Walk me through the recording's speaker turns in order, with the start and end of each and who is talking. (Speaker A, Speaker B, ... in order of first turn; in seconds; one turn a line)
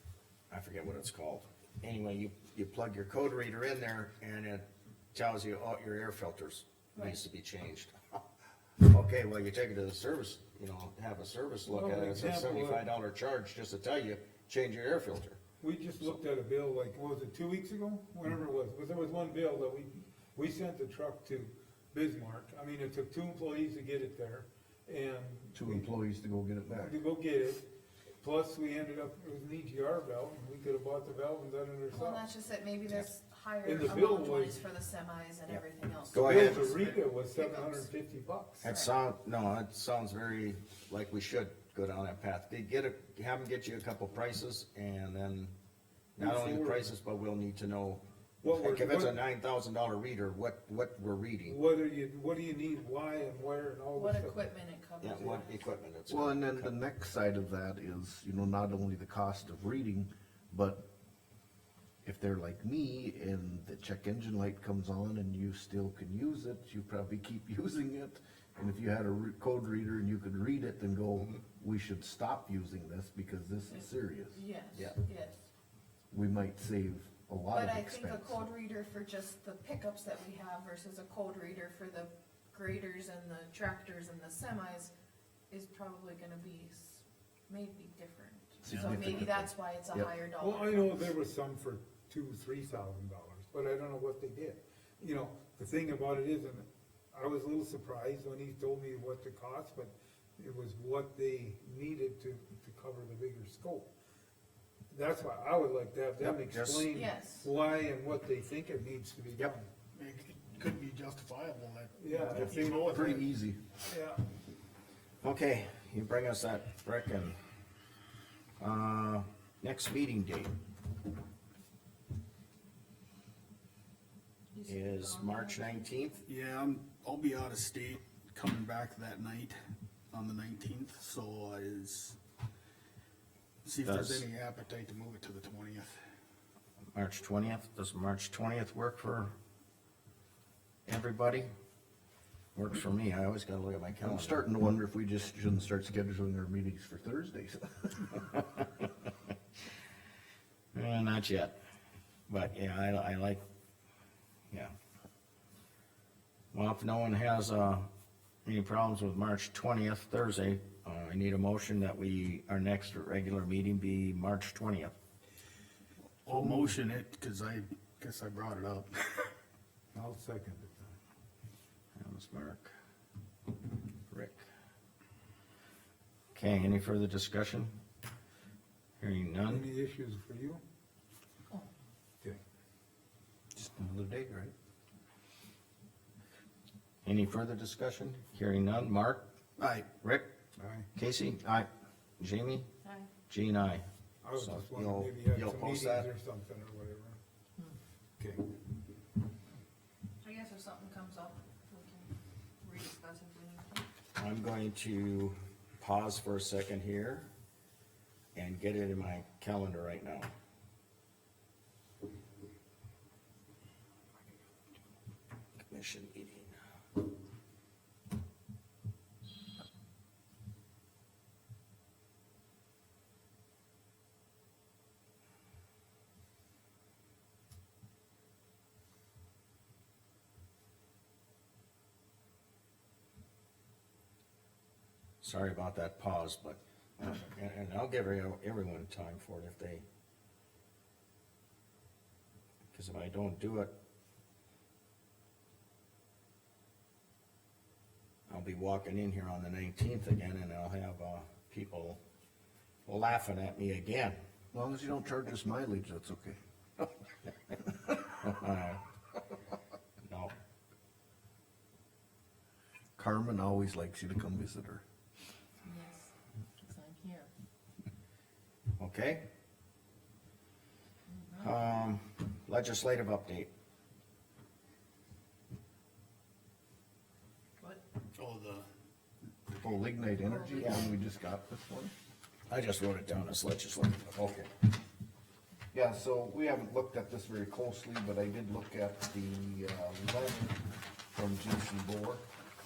Speaker A: 0.5-8.2
Speaker B: 6.9-7.2
Speaker A: 8.8-15.4
Speaker C: 11.7-12.9
Speaker C: 15.6-25.9
Speaker D: 25.5-27.0
Speaker C: 26.8-27.7
Speaker C: 28.2-32.2
Speaker B: 31.9-37.9
Speaker C: 33.6-34.6
Speaker A: 35.5-36.7
Speaker C: 36.2-38.7
Speaker A: 38.6-45.5
Speaker B: 38.6-38.9
Speaker C: 46.2-46.9
Speaker A: 46.2-51.6
Speaker C: 48.4-49.2
Speaker C: 51.5-54.5
Speaker B: 54.0-55.6
Speaker A: 55.0-56.7
Speaker D: 56.1-60.8
Speaker D: 62.0-74.4
Speaker B: 74.3-75.3
Speaker D: 76.1-78.4
Speaker B: 77.5-84.9
Speaker B: 85.5-91.0
Speaker D: 88.6-90.1
Speaker C: 90.4-103.9
Speaker C: 104.9-109.7
Speaker A: 106.2-106.9
Speaker B: 106.9-107.5
Speaker E: 109.9-113.3
Speaker C: 112.0-112.9
Speaker D: 112.4-113.6
Speaker C: 113.8-114.2
Speaker A: 115.2-117.4
Speaker A: 118.6-120.5
Speaker B: 124.5-126.0
Speaker A: 124.7-126.2
Speaker E: 126.3-129.6
Speaker E: 130.1-132.2
Speaker E: 133.6-136.0
Speaker A: 133.8-134.2
Speaker A: 136.9-139.3
Speaker A: 140.9-141.5
Speaker A: 142.6-144.4
Speaker D: 144.0-148.2
Speaker A: 148.4-148.6
Speaker A: 150.7-151.6
Speaker A: 152.3-153.4
Speaker A: 156.5-157.9
Speaker A: 158.4-164.9
Speaker E: 166.2-169.3
Speaker C: 166.3-166.8
Speaker C: 169.9-170.9
Speaker A: 172.0-172.7
Speaker A: 174.1-174.5
Speaker A: 176.3-177.8
Speaker A: 179.0-179.7
Speaker C: 179.5-180.6
Speaker D: 183.6-184.5
Speaker A: 187.1-189.2
Speaker E: 189.6-189.9
Speaker A: 190.0-190.3
Speaker C: 190.6-190.9
Speaker A: 191.0-191.4
Speaker D: 191.4-191.7
Speaker A: 192.2-192.7
Speaker B: 192.8-193.1
Speaker A: 193.3-196.1
Speaker C: 194.2-197.2
Speaker C: 198.2-198.5
Speaker B: 200.2-203.8
Speaker A: 204.2-207.3
Speaker A: 208.3-210.3
Speaker A: 215.6-216.6
Speaker A: 235.2-239.8
Speaker A: 242.7-243.7
Speaker A: 248.3-252.0
Speaker A: 252.9-254.2
Speaker D: 254.5-256.4
Speaker A: 258.1-258.8
Speaker A: 260.1-260.3
Speaker D: 263.0-264.8
Speaker B: 265.6-267.3
Speaker A: 268.8-269.3
Speaker B: 271.1-271.5
Speaker A: 271.4-273.5
Speaker E: 278.1-278.7
Speaker D: 279.6-281.9
Speaker B: 280.2-281.0
Speaker A: 280.6-280.9
Speaker A: 282.5-284.2
Speaker D: 284.1-284.5
Speaker D: 285.7-292.2